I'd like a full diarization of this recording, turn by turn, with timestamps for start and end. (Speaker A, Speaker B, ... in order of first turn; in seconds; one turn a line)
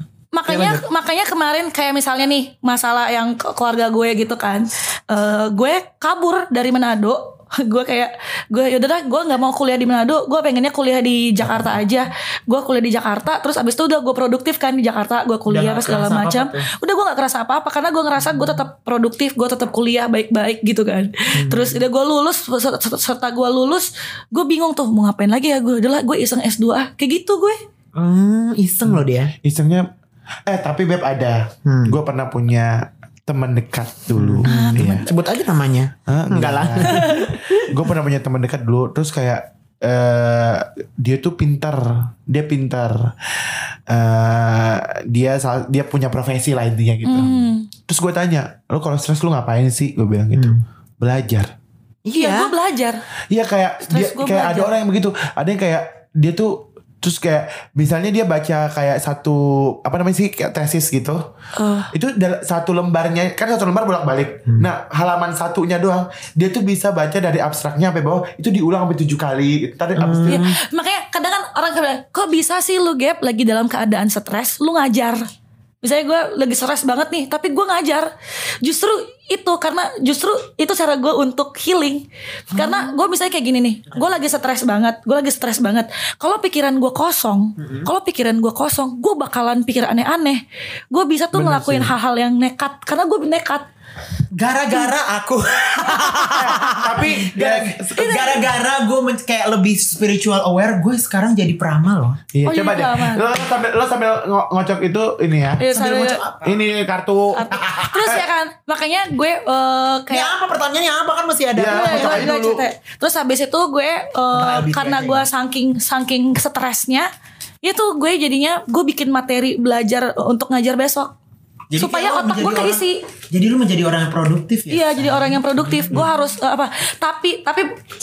Speaker A: 0.3-27.6
Speaker B: 0.5-0.8
Speaker B: 11.4-11.7
Speaker B: 15.5-16.7
Speaker B: 21.3-21.8
Speaker B: 27.9-29.3
Speaker C: 28.9-29.9
Speaker C: 30.5-35.1
Speaker B: 31.6-32.0
Speaker B: 34.1-37.6
Speaker A: 34.5-35.0
Speaker C: 36.1-47.3
Speaker A: 36.9-37.3
Speaker A: 47.0-47.7
Speaker C: 47.9-51.5
Speaker B: 50.3-50.6
Speaker B: 52.0-52.5
Speaker A: 52.2-53.0
Speaker C: 53.3-61.2
Speaker A: 53.9-54.7
Speaker A: 61.6-61.9
Speaker C: 61.9-70.5
Speaker B: 70.0-70.6
Speaker A: 70.3-75.2
Speaker A: 75.8-78.1
Speaker A: 78.6-93.7
Speaker B: 82.5-82.9
Speaker B: 87.6-87.9
Speaker C: 91.3-91.9
Speaker B: 94.3-102.2
Speaker C: 96.2-98.2
Speaker A: 98.0-98.5
Speaker C: 102.3-105.7
Speaker A: 102.5-103.3
Speaker A: 105.6-106.2
Speaker B: 105.7-106.6
Speaker C: 106.4-107.6
Speaker A: 107.3-110.3
Speaker B: 107.5-108.2
Speaker B: 110.1-112.3
Speaker C: 111.5-112.6
Speaker A: 111.7-117.1
Speaker B: 114.3-115.3
Speaker A: 117.6-121.1
Speaker B: 121.7-126.1
Speaker A: 121.8-123.0
Speaker A: 124.7-127.7